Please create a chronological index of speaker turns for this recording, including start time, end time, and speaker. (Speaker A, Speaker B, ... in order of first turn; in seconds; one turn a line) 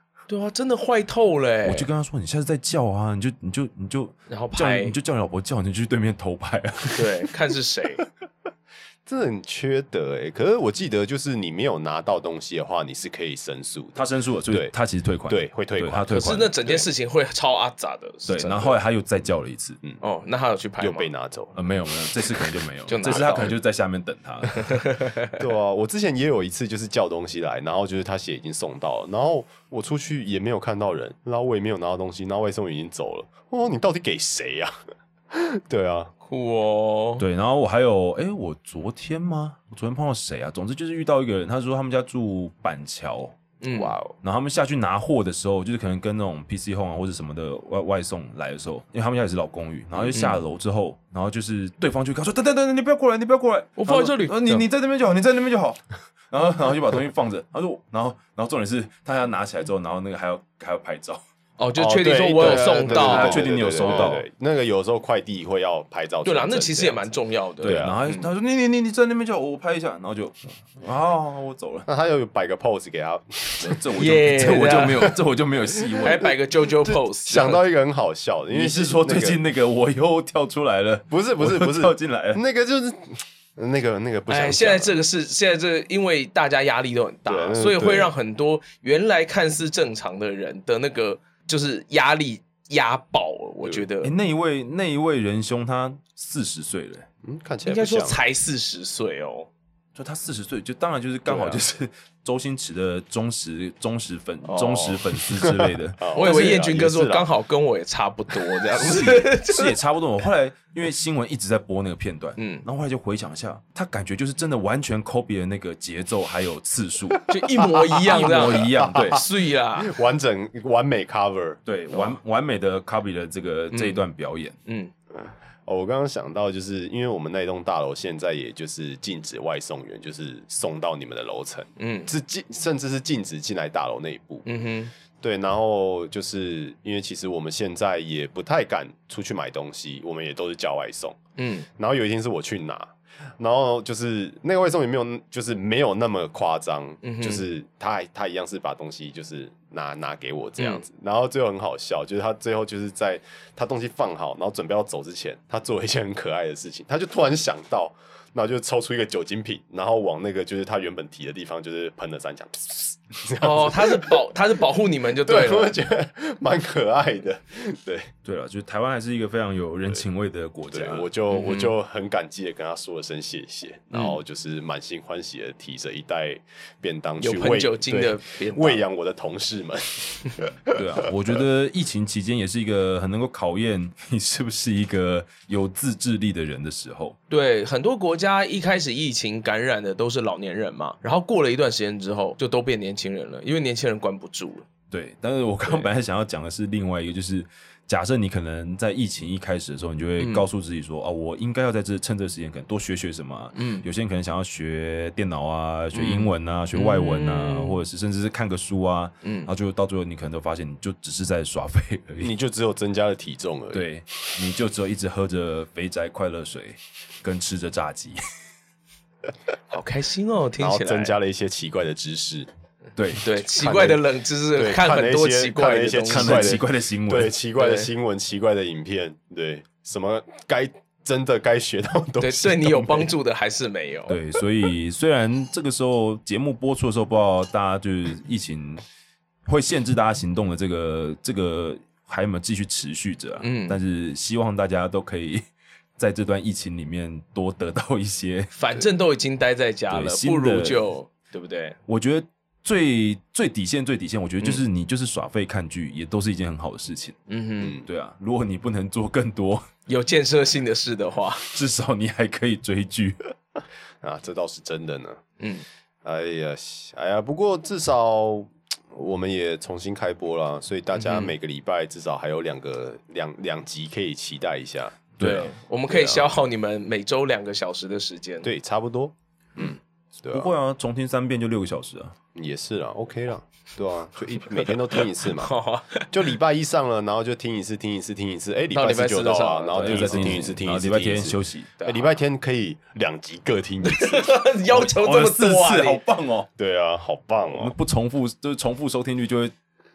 Speaker A: 0.3-1.9
Speaker B: 1.6-7.3
Speaker A: 4.3-5.0
Speaker A: 6.9-8.0
Speaker C: 9.1-14.7
Speaker B: 13.9-16.6
Speaker C: 15.3-16.5
Speaker A: 16.1-18.8
Speaker B: 18.2-19.8
Speaker A: 20.0-21.1
Speaker C: 20.8-21.5
Speaker B: 21.5-24.9
Speaker A: 22.9-23.5
Speaker A: 24.5-25.4
Speaker C: 25.4-34.7
Speaker C: 35.3-36.1
Speaker A: 36.2-37.2
Speaker B: 37.2-43.3
Speaker A: 43.6-44.0
Speaker C: 43.7-44.1
Speaker B: 44.2-61.2
Speaker C: 49.9-50.2
Speaker A: 50.1-50.4
Speaker A: 53.8-54.6
Speaker A: 61.6-64.2
Speaker C: 61.8-67.1
Speaker B: 62.5-64.2
Speaker A: 66.2-68.3
Speaker C: 67.6-68.0
Speaker B: 67.6-71.9
Speaker C: 71.8-73.9
Speaker B: 73.6-76.3
Speaker A: 73.9-75.1
Speaker C: 75.8-76.1
Speaker A: 76.0-77.6
Speaker C: 76.8-79.4
Speaker B: 78.5-82.4
Speaker C: 81.1-85.0
Speaker A: 84.3-94.1
Speaker C: 87.2-88.1
Speaker B: 94.0-97.1
Speaker C: 97.2-98.2
Speaker A: 97.6-99.5
Speaker B: 99.9-106.6
Speaker A: 101.3-101.6
Speaker A: 104.4-105.0
Speaker C: 105.2-107.3
Speaker A: 106.1-109.7
Speaker B: 108.7-117.3
Speaker A: 112.4-112.6
Speaker C: 117.1-119.2
Speaker A: 117.3-120.0
Speaker B: 118.0-119.2
Speaker C: 119.7-121.6
Speaker B: 121.6-124.5
Speaker A: 121.9-122.2
Speaker A: 123.7-124.0
Speaker A: 124.7-124.9
Speaker C: 125.1-134.4
Speaker A: 131.8-132.1
Speaker A: 134.4-134.9
Speaker C: 135.2-141.2
Speaker A: 141.4-141.7
Speaker C: 141.7-164.2
Speaker A: 147.0-147.4
Speaker A: 150.6-150.8
Speaker A: 163.4-165.7
Speaker C: 165.1-168.1
Speaker B: 168.2-171.1
Speaker C: 170.7-181.1
Speaker A: 171.3-171.7
Speaker A: 173.9-174.2
Speaker A: 177.2-178.8
Speaker B: 180.7-187.2
Speaker A: 187.3-194.7
Speaker B: 194.9-212.3
Speaker A: 200.2-200.5
Speaker A: 203.5-203.8
Speaker A: 205.9-207.8
Speaker A: 209.2-209.5
Speaker C: 212.2-213.9
Speaker B: 213.7-218.2
Speaker A: 219.7-221.1
Speaker C: 220.6-222.5
Speaker B: 222.9-224.0
Speaker A: 223.2-226.6
Speaker C: 223.6-224.0
Speaker C: 224.5-233.1
Speaker B: 226.1-227.3
Speaker A: 227.6-227.9
Speaker A: 232.2-234.2
Speaker B: 234.1-238.8
Speaker B: 239.4-245.4
Speaker A: 243.4-243.8
Speaker B: 246.0-248.5
Speaker A: 248.5-251.8
Speaker B: 249.9-250.8
Speaker B: 251.9-257.2
Speaker A: 257.3-257.8
Speaker C: 257.6-257.9
Speaker B: 257.8-259.7
Speaker A: 259.9-261.5
Speaker B: 261.4-263.3
Speaker C: 264.0-265.2
Speaker A: 265.4-265.6
Speaker C: 266.0-275.1
Speaker A: 270.9-271.3
Speaker B: 275.2-275.5
Speaker A: 275.2-278.5
Speaker C: 275.9-276.4
Speaker C: 278.4-280.5
Speaker B: 280.3-282.1
Speaker C: 282.3-285.5
Speaker A: 285.3-286.1
Speaker C: 286.1-294.4
Speaker A: 288.7-290.6
Speaker B: 289.8-291.7
Speaker A: 291.8-292.1
Speaker A: 293.8-296.0
Speaker B: 294.7-296.5
Speaker C: 296.6-297.7
Speaker B: 297.4-299.5